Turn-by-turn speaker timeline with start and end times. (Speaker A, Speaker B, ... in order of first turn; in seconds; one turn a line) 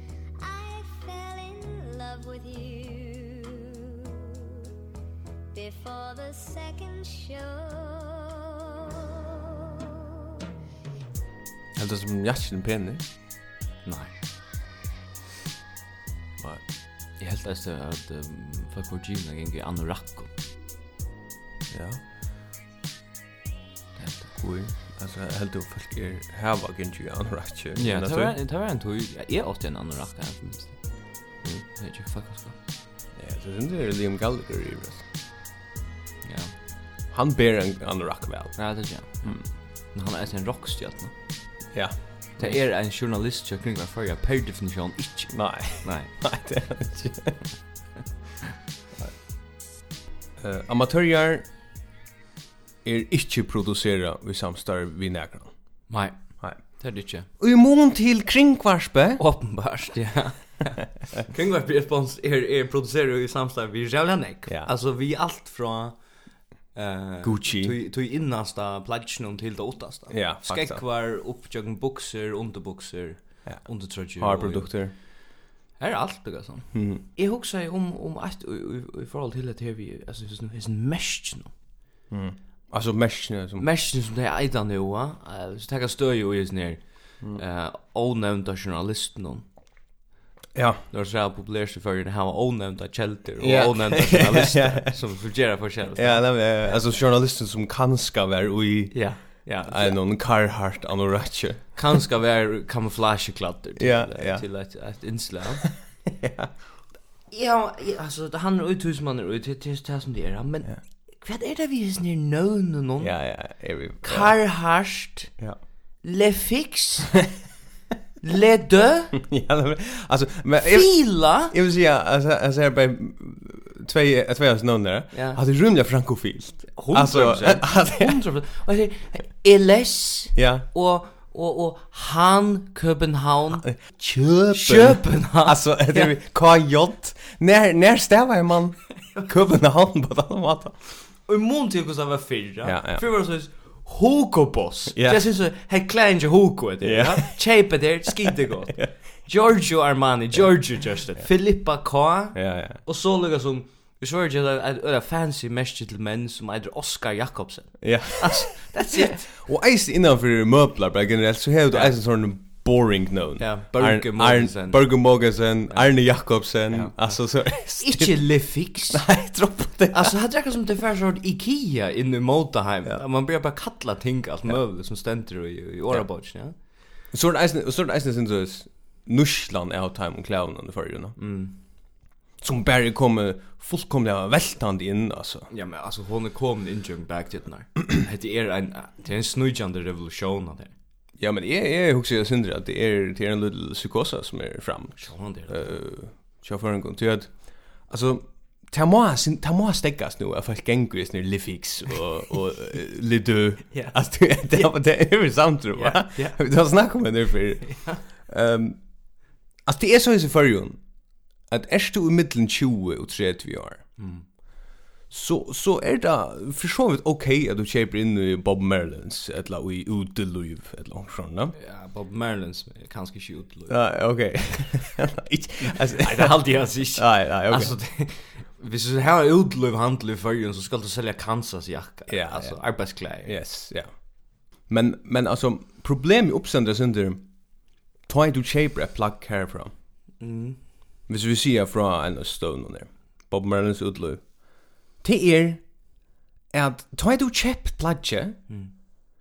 Speaker A: 0.4-4.5
Speaker A: 5.5-9.2
Speaker B: 11.8-13.0
Speaker C: 13.8-14.1
Speaker C: 17.2-20.3
Speaker B: 21.7-22.0
Speaker C: 24.0-24.3
Speaker B: 24.4-28.3
Speaker C: 27.8-32.5
Speaker B: 33.1-35.0
Speaker C: 36.2-36.5
Speaker B: 37.1-39.4
Speaker C: 38.5-41.1
Speaker B: 41.7-42.6
Speaker C: 42.4-46.1
Speaker B: 45.3-47.4
Speaker B: 50.4-51.5
Speaker B: 52.8-55.5
Speaker C: 55.9-57.3
Speaker B: 57.4-59.2
Speaker C: 59.2-66.0
Speaker C: 66.7-74.7
Speaker B: 67.2-67.7
Speaker B: 70.1-70.8
Speaker B: 73.5-74.9
Speaker C: 75.8-81.5
Speaker B: 76.7-77.0
Speaker B: 82.1-83.6
Speaker C: 83.6-89.4
Speaker B: 90.5-90.8
Speaker C: 90.9-96.3
Speaker B: 93.4-94.9
Speaker B: 95.9-101.9
Speaker C: 98.9-100.0
Speaker C: 101.8-105.6
Speaker B: 103.8-104.5
Speaker B: 106.0-106.5
Speaker C: 107.3-113.5
Speaker B: 113.0-114.3
Speaker C: 114.0-115.3
Speaker C: 116.0-117.2
Speaker C: 118.2-119.2
Speaker B: 119.1-128.2
Speaker C: 120.7-121.5
Speaker C: 125.1-125.4
Speaker C: 126.7-133.7
Speaker B: 130.3-130.7
Speaker B: 133.6-140.8
Speaker C: 134.5-136.1
Speaker C: 141.3-159.3
Speaker B: 142.6-143.0
Speaker B: 144.9-145.3
Speaker B: 146.8-147.4
Speaker B: 148.1-148.9
Speaker B: 152.3-152.8
Speaker B: 157.8-168.2
Speaker C: 163.4-164.9
Speaker C: 166.7-169.1
Speaker B: 168.9-170.1
Speaker C: 169.9-176.5
Speaker B: 177.1-181.2
Speaker C: 181.2-181.6
Speaker B: 182.4-185.5
Speaker C: 185.5-190.7
Speaker B: 191.2-208.8
Speaker C: 195.0-195.8
Speaker C: 203.7-204.0
Speaker C: 205.7-206.4
Speaker C: 207.6-208.0
Speaker B: 209.6-210.8
Speaker B: 211.5-213.8
Speaker C: 214.0-214.2
Speaker B: 215.1-221.5
Speaker C: 221.5-223.8
Speaker B: 223.7-227.7
Speaker C: 225.6-233.3
Speaker B: 232.1-232.6
Speaker B: 233.2-233.9
Speaker B: 234.7-237.3
Speaker B: 238.0-239.7
Speaker C: 240.2-240.6
Speaker B: 241.1-244.3
Speaker B: 245.0-245.6
Speaker B: 246.5-248.4